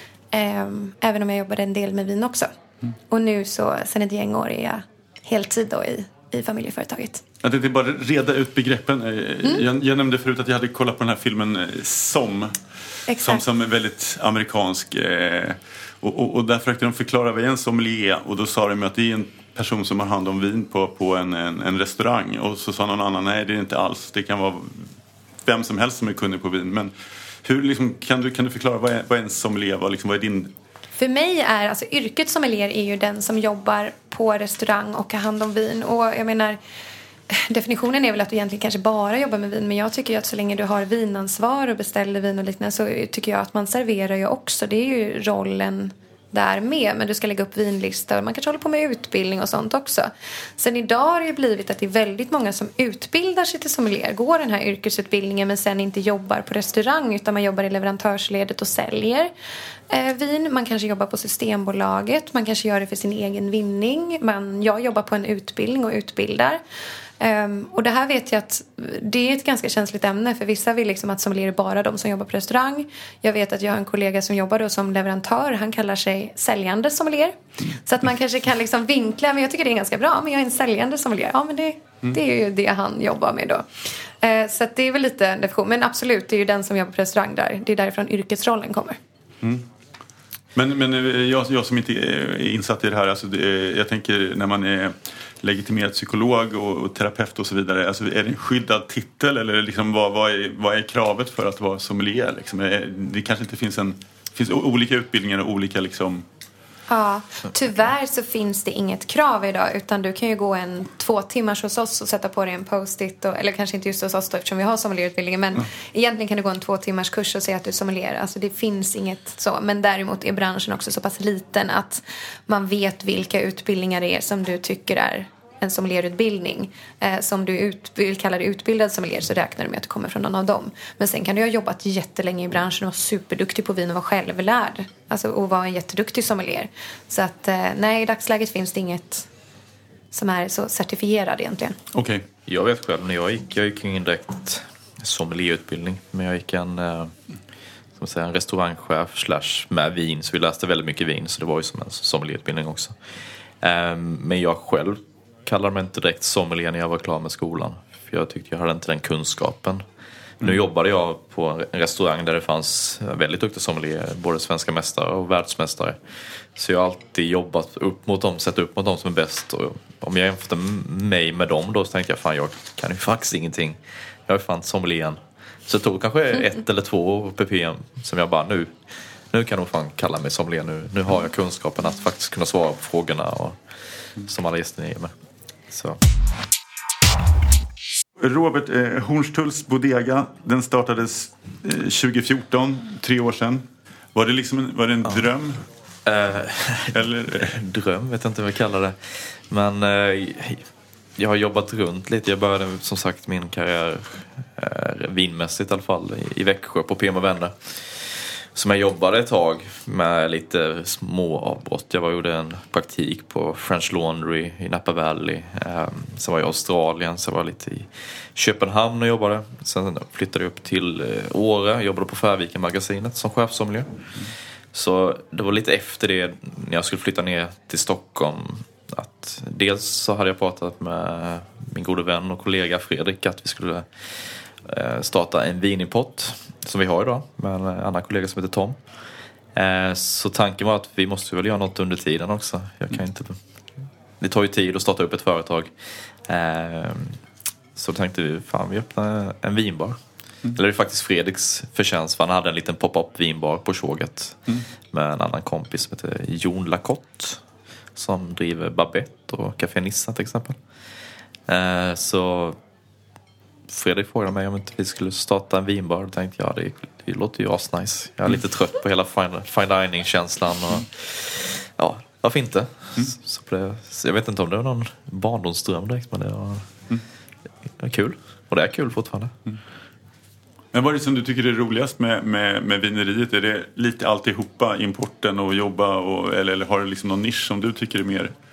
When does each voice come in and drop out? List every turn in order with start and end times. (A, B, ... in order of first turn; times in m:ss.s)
0:00.3-0:02.5 A
0:03.1-0:07.2 A
0:07.4-0:12.6 B
0:13.1-0:13.4 A
0:13.2-0:24.9 B
0:25.4-0:26.9 B
0:27.4-0:30.5 B
0:31.0-0:36.6 A
0:37.3-0:59.3 A
0:59.9-1:06.6 A
1:07.2-1:29.0 A
1:29.4-1:29.7 B
1:30.6-1:46.2 B
1:46.9-2:19.3 A
2:20.1-2:21.8 A
2:21.9-2:22.2 B
2:22.5-2:27.1 C
2:28.0-2:33.0 C
2:33.6-2:39.8 C
2:40.4-2:46.0 C
2:46.6-2:58.8 C
2:59.3-3:03.6 C
3:04.2-3:05.1 C
3:05.7-3:06.0 C
3:08.2-3:15.6 B
3:16.0-3:20.6 C
3:16.9-3:17.5 B
3:21.2-3:44.0 C
3:44.7-3:58.8 C
3:59.5-4:03.4 C
4:04.2-4:05.7 C
4:06.3-4:07.2 C
4:07.8-4:10.0 C
4:10.5-4:17.4 C
4:18.0-4:20.6 C
4:21.5-4:22.6 C
4:23.7-4:36.7 C
4:37.8-4:39.3 C
4:40.7-4:48.3 B